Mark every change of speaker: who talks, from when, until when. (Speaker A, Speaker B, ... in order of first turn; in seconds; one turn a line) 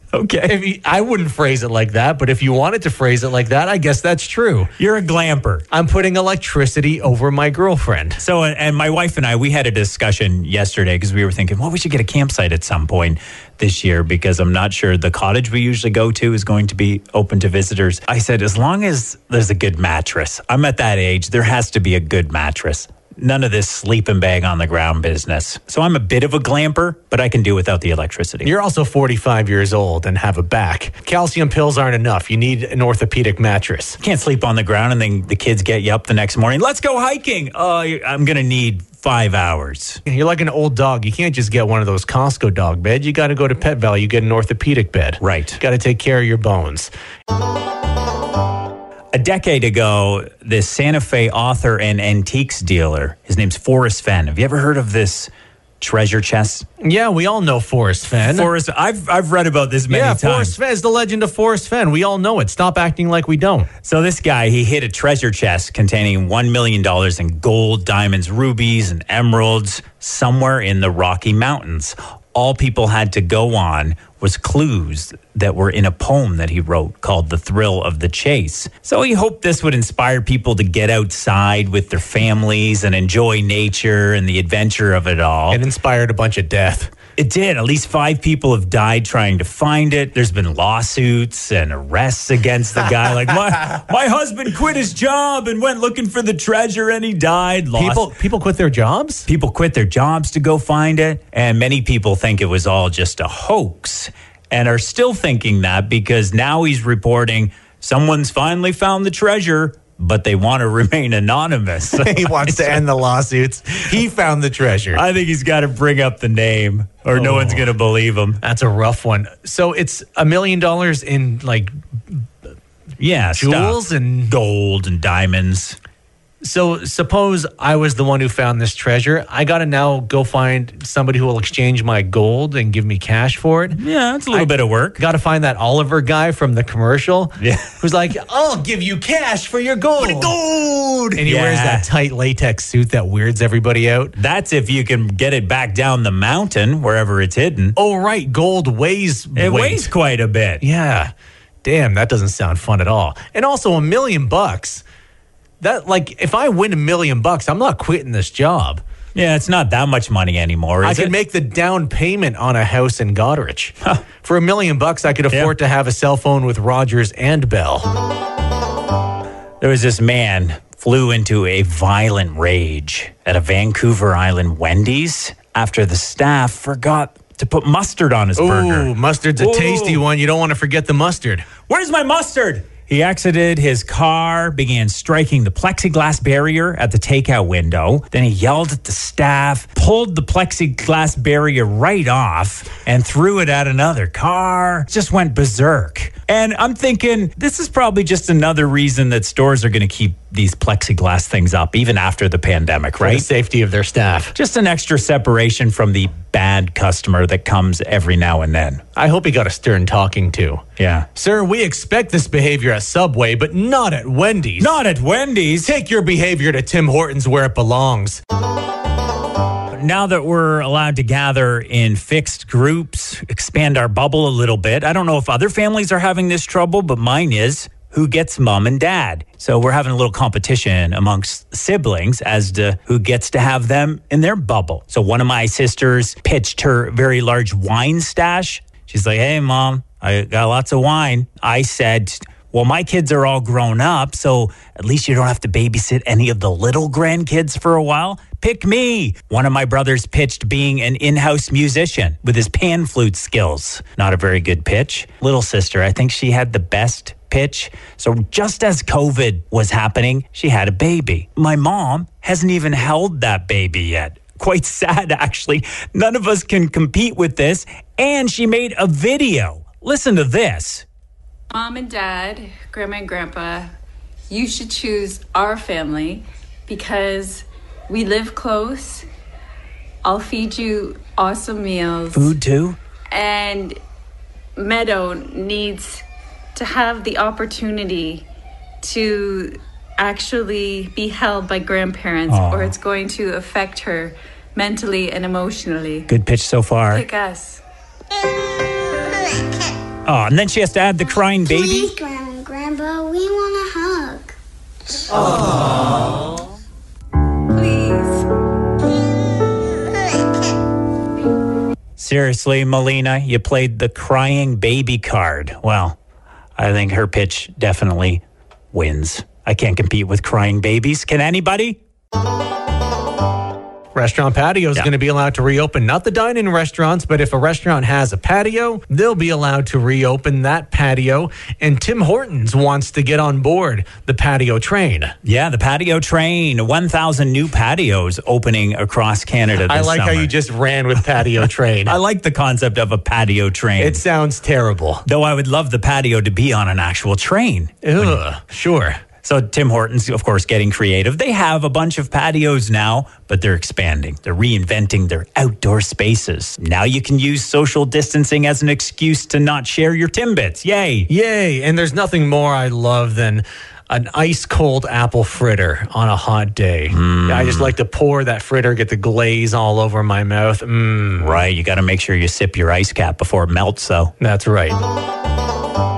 Speaker A: 0.1-0.6
Speaker B: 0.4-4.7
Speaker A: 4.8-5.7
Speaker B: 5.7-8.2
Speaker A: 8.2-28.5
Speaker B: 28.4-34.0
Speaker A: 34.0-40.0
Speaker B: 40.0-46.9
Speaker A: 45.2-45.6
Speaker A: 49.1-56.7
Speaker B: 56.8-58.5
Speaker A: 58.2-60.5
Speaker B: 59.9-63.7
Speaker A: 63.8-85.6
Speaker B: 85.5-86.9
Speaker A: 87.2-98.1
Speaker B: 97.7-99.3
Speaker A: 99.3-112.8
Speaker B: 111.9-115.0
Speaker A: 114.9-118.4
Speaker B: 117.1-117.7
Speaker B: 118.4-122.2
Speaker A: 123.0-125.8
Speaker B: 123.4-124.3
Speaker B: 126.4-133.8
Speaker A: 133.7-135.0
Speaker B: 134.3-140.4
Speaker A: 137.4-137.7
Speaker A: 140.0-141.9
Speaker B: 141.1-144.1
Speaker A: 144.2-147.8
Speaker B: 147.8-149.9
Speaker A: 149.3-150.6
Speaker B: 150.6-151.1
Speaker B: 151.6-154.8
Speaker B: 155.6-158.8
Speaker A: 159.1-161.1
Speaker B: 160.8-167.9
Speaker A: 169.6-180.0
Speaker B: 178.4-181.5
Speaker A: 181.7-203.2
Speaker B: 203.0-204.3
Speaker A: 204.3-208.8
Speaker B: 208.9-210.6
Speaker A: 210.8-211.1
Speaker B: 211.1-214.8
Speaker A: 214.6-215.7
Speaker B: 215.6-218.2
Speaker A: 219.7-270.8
Speaker C: 271.5-273.7
Speaker C: 274.3-279.1
Speaker C: 280.0-282.3
Speaker A: 282.1-282.8
Speaker C: 283.1-283.8
Speaker C: 284.6-286.0
Speaker C: 286.5-288.2
Speaker C: 288.8-296.1
Speaker A: 292.3-292.7
Speaker A: 296.1-297.0
Speaker C: 296.9-297.6
Speaker A: 300.1-301.9
Speaker D: 301.3-304.4
Speaker C: 307.5-308.3
Speaker A: 312.0-316.0
Speaker A: 316.6-321.8
Speaker B: 323.9-335.1
Speaker A: 335.2-340.3
Speaker B: 339.7-342.0
Speaker A: 341.8-344.0
Speaker B: 343.8-345.0
Speaker A: 345.0-348.2
Speaker B: 347.8-349.0
Speaker A: 349.2-361.1
Speaker B: 361.1-371.4
Speaker A: 366.9-367.7
Speaker A: 371.2-374.1
Speaker B: 374.2-374.8